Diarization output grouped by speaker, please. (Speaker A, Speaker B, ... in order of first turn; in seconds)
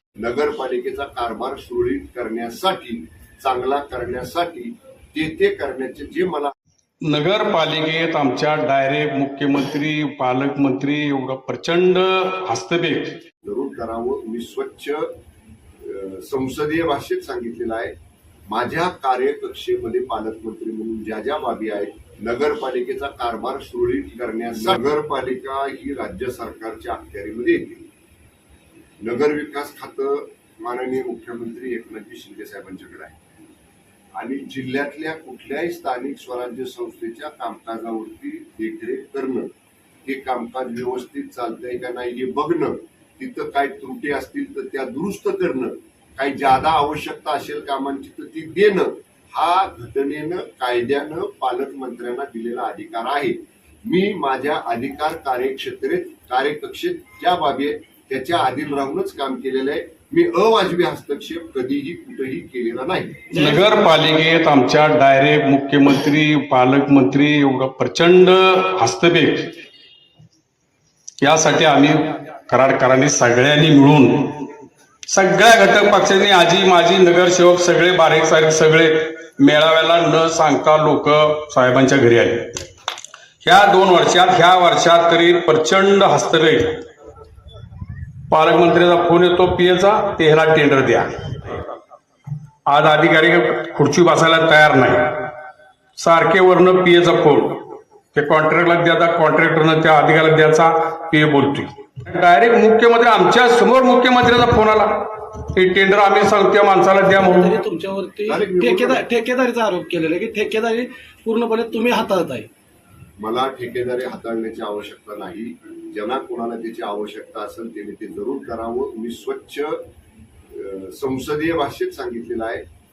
Speaker A: 0.2-6.5, 13.4-15.1, 15.8-17.9, 18.5-27.9, 29.0-33.2, 34.1-39.5, 40.0-63.2, 108.3-109.0, 113.2-119.8, 120.5-122.6
Speaker B: 7.0-13.2, 63.3-69.5, 71.2-74.5, 75.1-82.6, 83.4-86.8, 88.3-91.6, 92.7-95.2, 96.0-107.5
Speaker C: 107.2-112.5